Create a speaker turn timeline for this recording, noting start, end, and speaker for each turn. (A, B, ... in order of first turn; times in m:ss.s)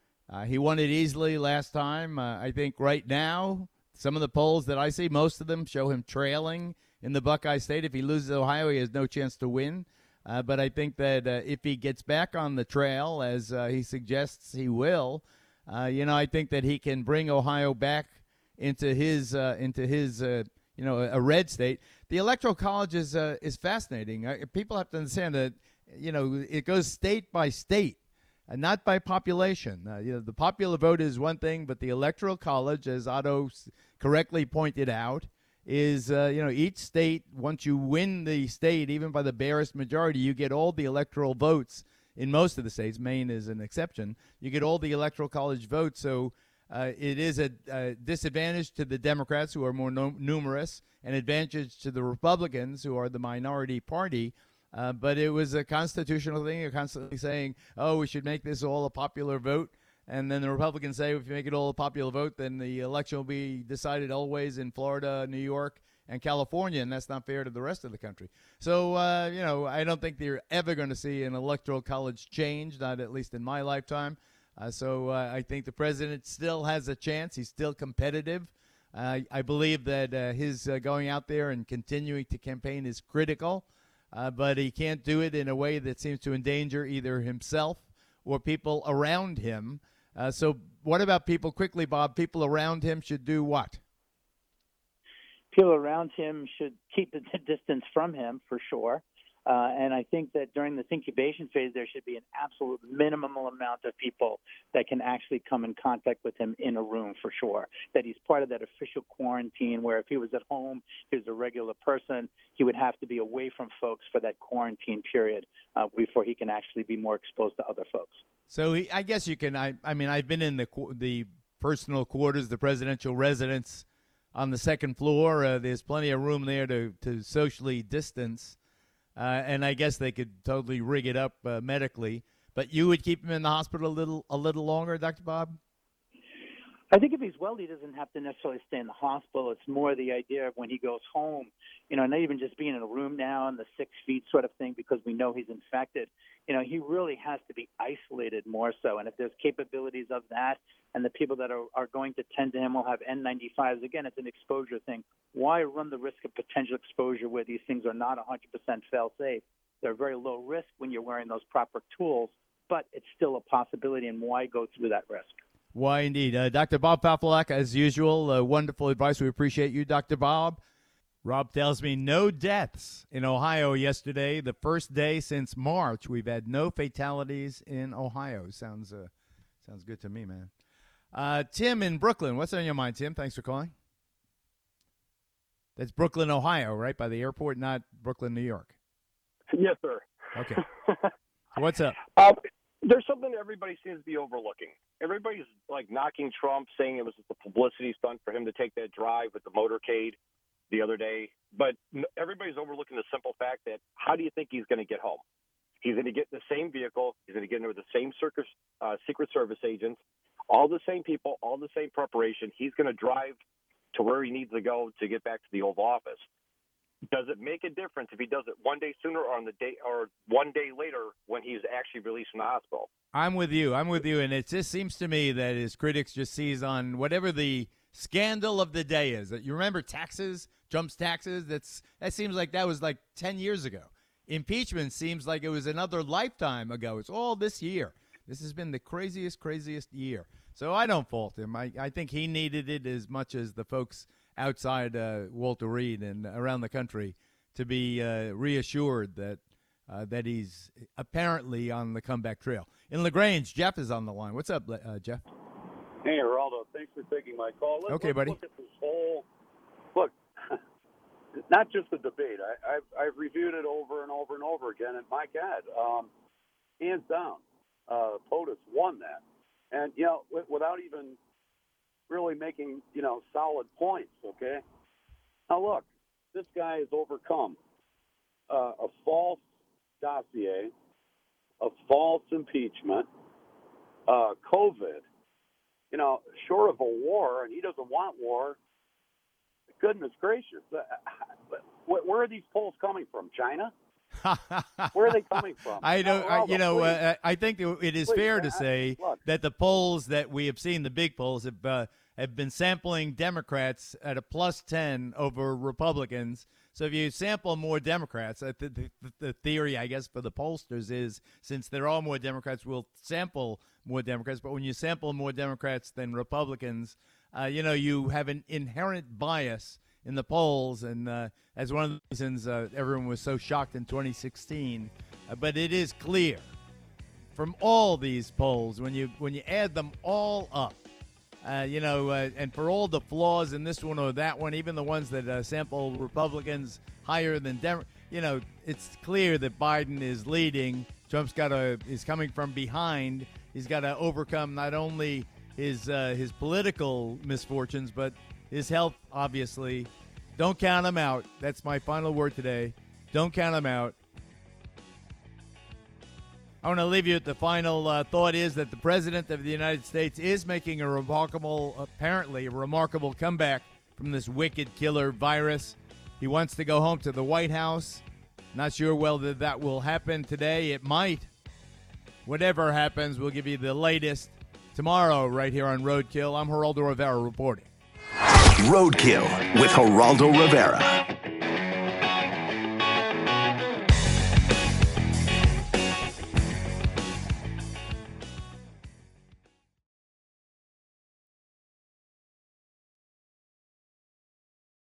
0:00.3-1:33.8 A
1:35.5-1:58.2 B
1:58.5-2:08.6 A
2:09.2-2:15.6 A
2:16.9-2:45.4 B
2:45.7-2:50.6 A
2:51.2-2:59.1 A
2:59.6-3:00.5 A
3:01.1-3:03.7 A
3:05.8-3:08.7 A
3:09.5-3:11.1 C
3:10.4-3:10.6 A
3:11.6-3:12.0 A
3:12.1-3:20.2 C
3:20.7-3:25.2 C
3:25.8-3:33.4 C
3:33.9-3:36.2 C
3:37.1-3:42.9 C
3:43.1-4:15.2 A
4:16.0-4:19.2 D
4:17.9-4:18.4 A
4:19.9-4:20.6 D
4:21.5-4:26.1 D
4:26.8-4:31.2 D
4:32.1-4:34.6 D
4:35.5-4:37.6 D
4:38.5-4:39.4 D
4:40.0-4:40.7 D
4:41.6-4:43.1 D
4:44.1-4:45.0 D
4:45.9-4:48.6 D
4:49.8-4:53.7 D
4:54.2-4:55.2 A
4:54.9-4:57.0 D
4:55.8-5:26.5 A
4:58.0-4:59.2 D
5:27.4-5:30.8 A
5:31.4-5:54.0 A
5:56.6-6:08.0 A
6:08.5-6:11.3 A
6:12.2-6:17.7 A
6:18.6-6:21.0 E